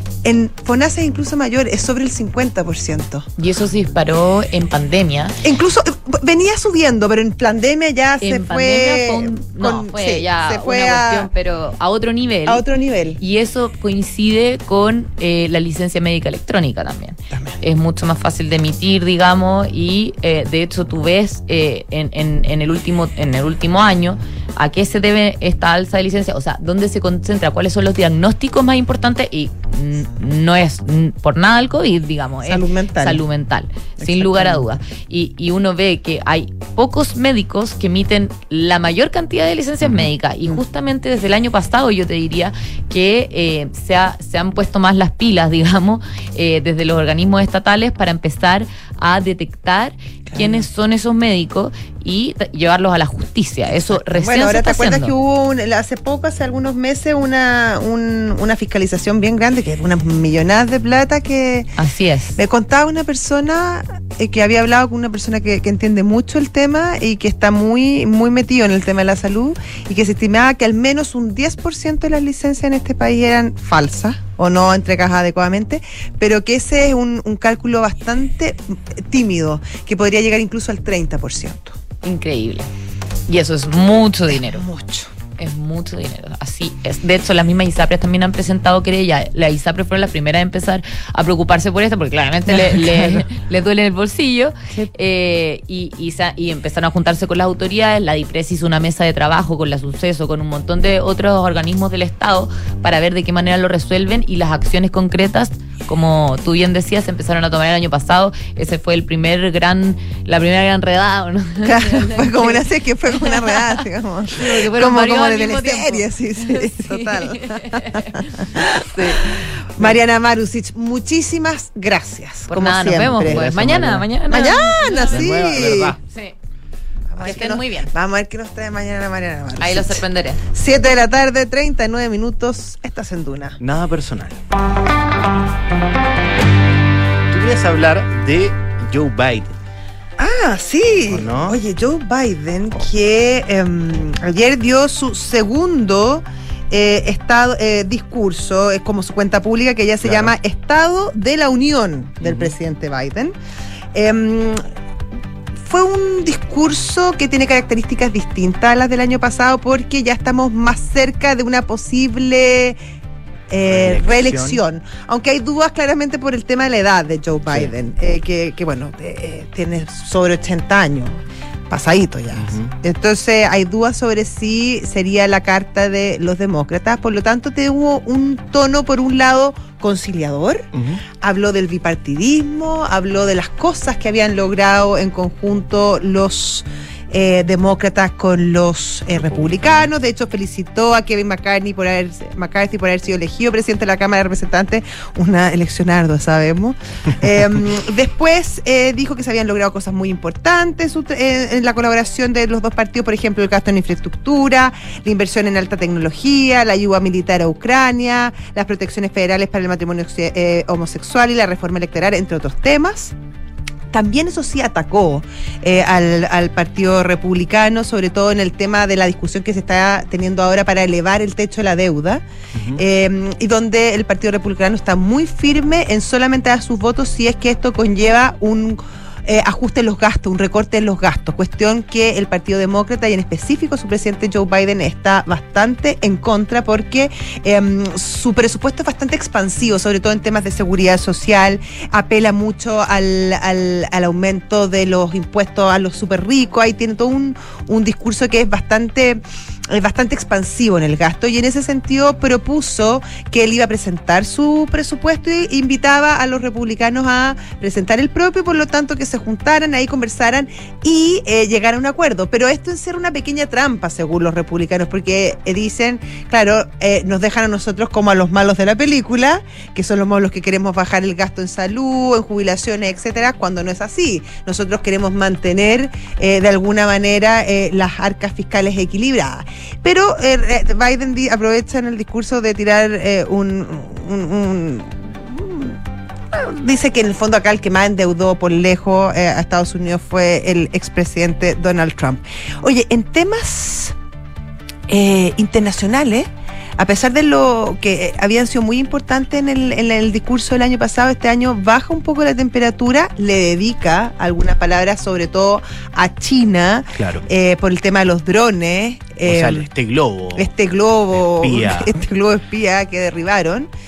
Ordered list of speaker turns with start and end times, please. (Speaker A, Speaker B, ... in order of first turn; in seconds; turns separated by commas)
Speaker A: 0.2-3.3, Speaker B: 3.4-5.3, Speaker A: 5.4-11.3, Speaker B: 8.2-12.6, Speaker A: 12.5-13.2, Speaker B: 13.2-55.1, Speaker A: 17.3-17.6, Speaker A: 32.4-33.2, Speaker A: 34.0-34.7, Speaker C: 39.8-40.1, Speaker A: 50.3-50.7, Speaker A: 53.7-61.7, Speaker B: 61.8-62.4, Speaker A: 62.4-81.8, Speaker B: 82.0-82.7, Speaker B: 83.3-84.6, Speaker A: 84.3-85.1, Speaker B: 85.4-113.8, Speaker A: 92.5-93.3, Speaker A: 111.6-123.5, Speaker B: 114.3-120.0, Speaker B: 122.5-125.3, Speaker C: 123.2-124.1, Speaker A: 124.3-126.0, Speaker C: 125.0-126.0, Speaker B: 126.0-126.3, Speaker A: 127.1-133.6, Speaker B: 127.2-127.9, Speaker B: 129.6-130.4, Speaker C: 133.6-134.4, Speaker C: 137.3-139.6, Speaker A: 140.2-153.3, Speaker C: 141.1-141.6, Speaker C: 150.0-150.3, Speaker C: 152.2-152.6, Speaker A: 153.9-154.6, Speaker A: 155.7-162.8, Speaker A: 163.5-180.7, Speaker C: 163.6-164.6, Speaker C: 167.5-167.7, Speaker C: 172.3-172.7, Speaker C: 180.7-181.0, Speaker A: 181.2-213.1, Speaker C: 189.2-189.8, Speaker A: 213.9-222.2, Speaker C: 222.6-222.8, Speaker A: 222.8-285.8, Speaker A: 286.3-293.9, Speaker A: 294.9-309.7, Speaker C: 306.9-307.2, Speaker C: 309.2-310.5, Speaker A: 310.4-313.7, Speaker C: 311.1-312.0